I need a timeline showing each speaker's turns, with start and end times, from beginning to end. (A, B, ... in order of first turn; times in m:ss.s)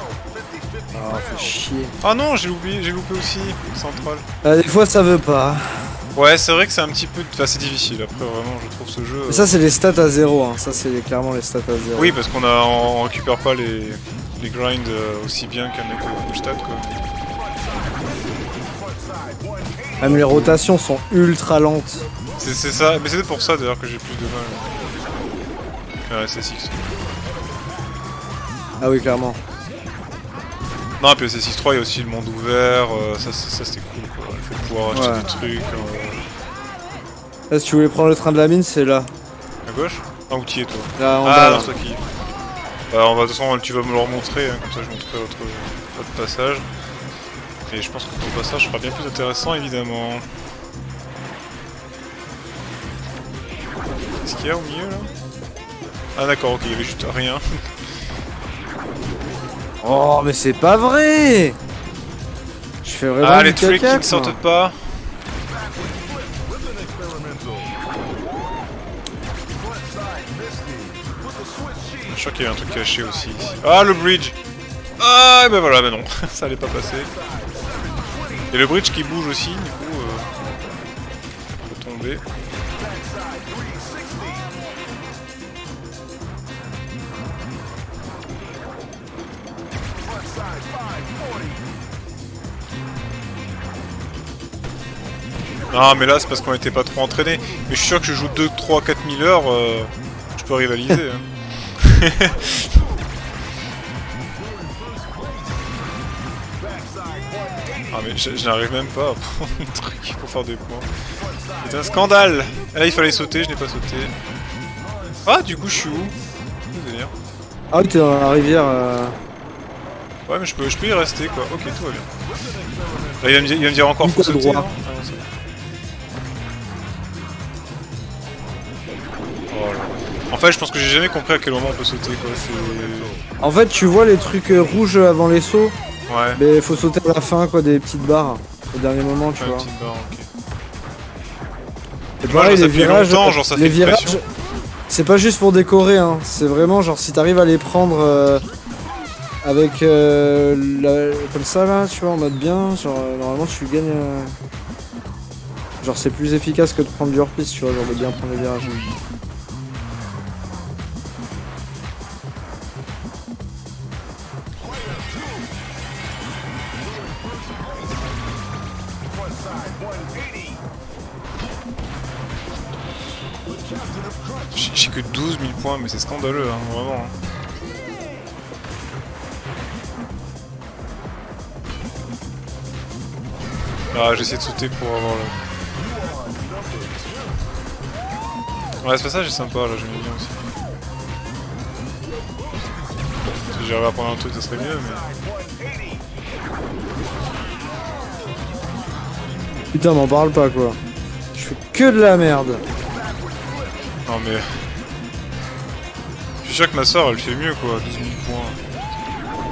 0:00.9-0:01.9 A
0:02.0-0:04.2 B
0:04.4-0:06.0 A
0:06.1-0:09.5 B
0:09.3-0:12.1 A
0:11.9-0:17.0 B
0:20.0-0:22.0 A
0:20.0-0:20.6 B
0:22.4-0:24.8 B
0:26.1-0:27.0 B
0:28.8-0:29.4 A
0:31.0-0:36.2 B
0:34.9-0:35.2 A
0:37.5-0:39.1 A
0:39.6-0:42.0 B
0:41.0-0:41.7 A
0:42.9-0:46.7 B
0:47.7-0:50.2 B
0:54.2-0:55.1 B
0:56.1-0:57.4 B
0:59.8-1:01.6 A
1:02.8-1:04.4 A
1:03.2-1:04.8 B
1:12.0-1:14.4 B
1:15.0-1:17.1 B
1:18.5-1:20.7 B
1:21.6-1:22.2 B
1:35.7-1:41.2 B
1:41.8-1:42.8 B
1:47.9-1:50.9 B
1:51.6-1:54.1 B
1:55.2-1:57.1 B
1:57.7-1:59.2 A
2:00.3-2:02.1 B
2:03.2-2:05.2 B
2:04.0-2:04.7 A
2:09.5-2:13.2 B
2:13.4-2:15.7 A
2:16.1-2:16.4 B
2:16.4-2:19.7 A
2:19.4-2:20.3 B
2:22.2-2:24.2 B
2:22.2-2:24.2 A
2:24.9-2:28.4 A
2:29.4-2:34.3 A
2:35.8-2:38.8 A
2:54.5-2:57.1 B
3:03.9-3:05.3 B
3:08.8-3:10.4 B
3:13.2-3:15.1 B
3:19.7-3:20.8 A
3:21.3-3:22.6 A
3:24.0-3:24.6 B
3:26.4-3:28.9 B